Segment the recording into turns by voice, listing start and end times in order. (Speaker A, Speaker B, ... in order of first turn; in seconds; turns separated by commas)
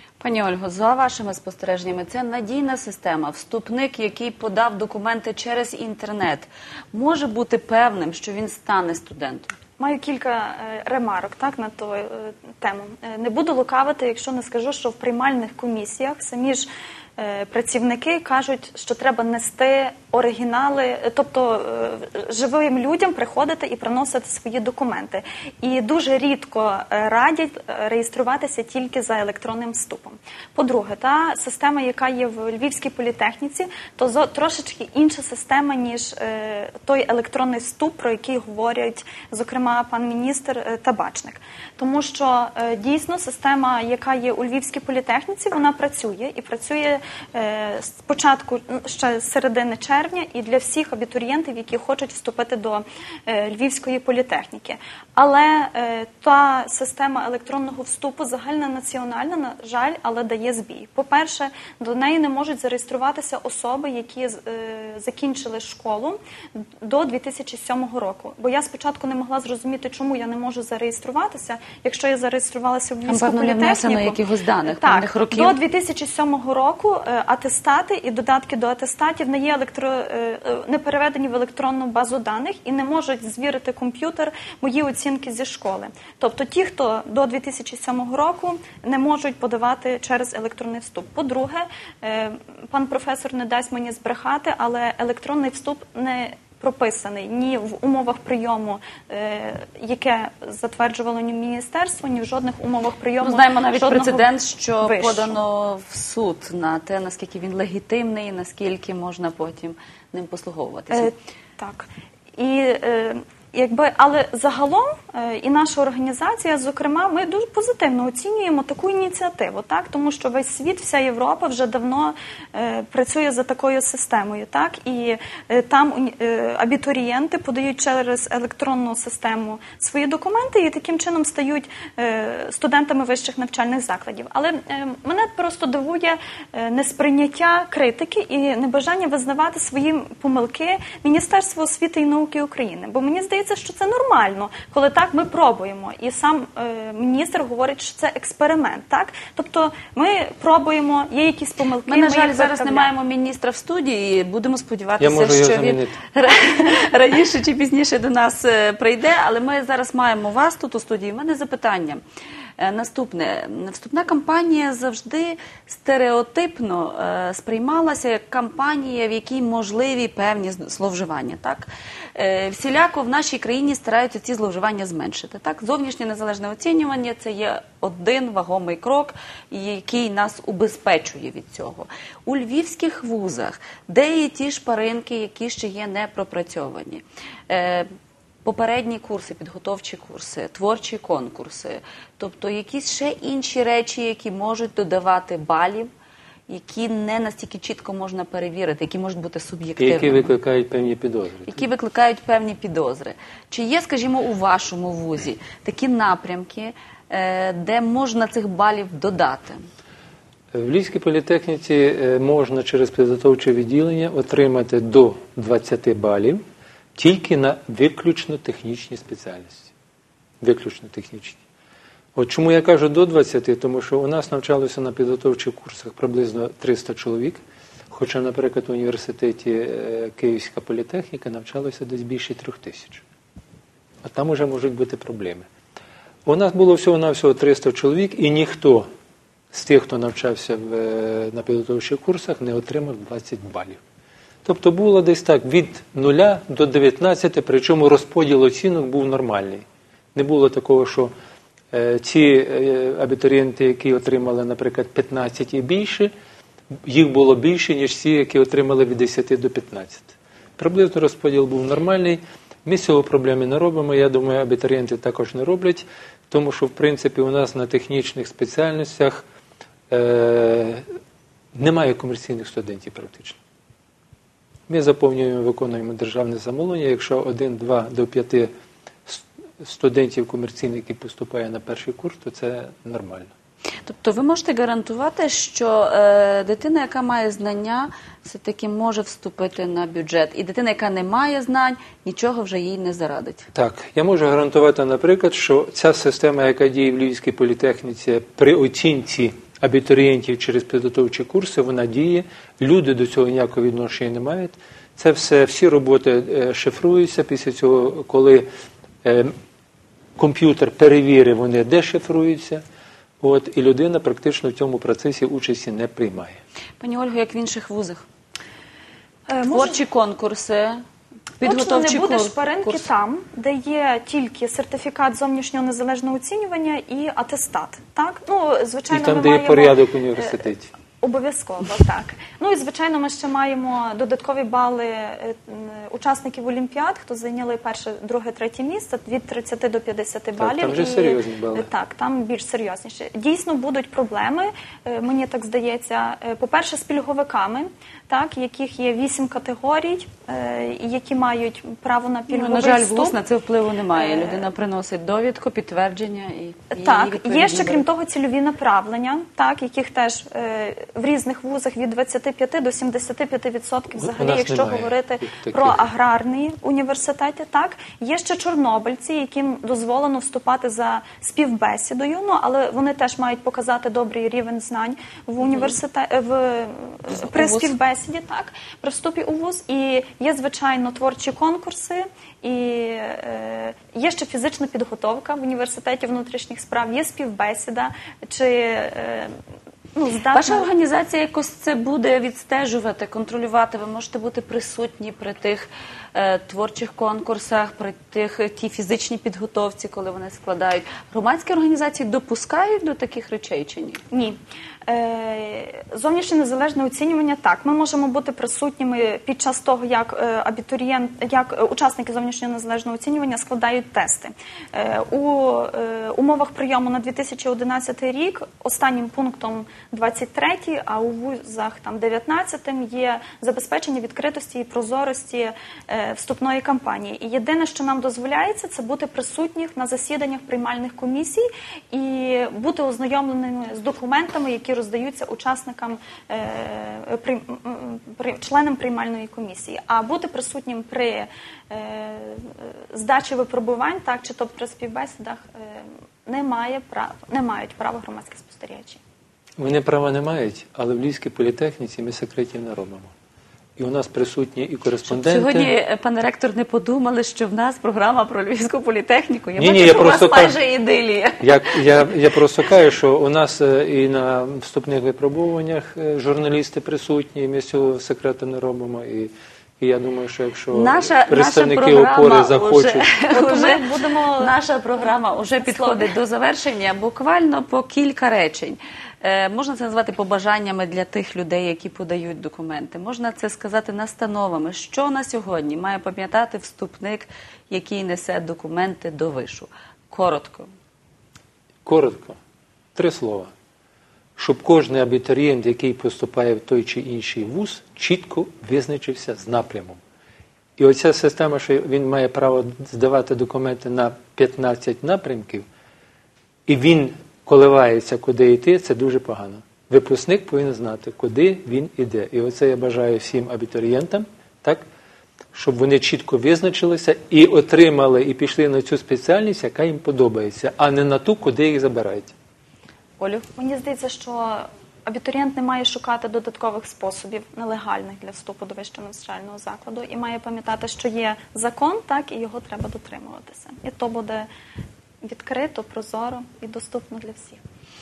Speaker A: 0.2-9.6, Speaker B: 9.8-104.3, Speaker A: 73.1-75.6, Speaker A: 103.2-111.1, Speaker B: 104.8-105.4, Speaker B: 110.9-152.9, Speaker A: 151.8-162.0, Speaker C: 155.0-156.0, Speaker A: 162.6-187.9, Speaker A: 188.4-195.9, Speaker A: 196.5-200.3, Speaker C: 199.8-201.7, Speaker A: 201.5-209.6, Speaker C: 210.5-216.4, Speaker C: 217.0-219.7, Speaker C: 220.4-221.4, Speaker C: 222.2-227.4, Speaker C: 227.9-233.0, Speaker C: 234.0-235.5, Speaker C: 236.3-238.9, Speaker C: 239.5-243.8, Speaker C: 244.4-251.1, Speaker C: 251.7-256.1, Speaker C: 256.9-269.2, Speaker C: 269.9-270.8, Speaker C: 271.6-273.4, Speaker C: 274.7-278.5, Speaker C: 279.1-283.3, Speaker A: 283.9-293.5, Speaker C: 293.6-308.5, Speaker C: 309.0-309.3, Speaker C: 310.2-312.6, Speaker C: 313.2-316.4, Speaker A: 316.8-318.1, Speaker B: 319.3-319.8, Speaker A: 319.5-320.8, Speaker A: 321.4-322.9, Speaker B: 321.4-330.3, Speaker C: 328.9-330.7, Speaker B: 331.0-353.2, Speaker C: 340.4-341.7, Speaker A: 352.3-357.9, Speaker B: 353.9-354.5, Speaker B: 356.7-389.3, Speaker C: 364.0-365.9, Speaker A: 375.4-375.7, Speaker A: 377.1-377.7, Speaker B: 389.9-390.7, Speaker A: 390.3-404.0, Speaker B: 404.1-449.0, Speaker C: 449.6-453.1, Speaker C: 453.8-455.7, Speaker A: 455.1-462.1, Speaker C: 459.6-460.6, Speaker C: 461.4-473.2, Speaker A: 470.7-473.9, Speaker B: 473.3-474.6, Speaker A: 474.4-490.7, Speaker B: 475.6-476.1, Speaker C: 491.9-492.4, Speaker C: 492.9-493.5, Speaker C: 494.4-500.0, Speaker C: 500.8-505.7, Speaker C: 506.7-514.8, Speaker C: 515.5-522.3, Speaker B: 523.2-534.5, Speaker B: 535.2-537.6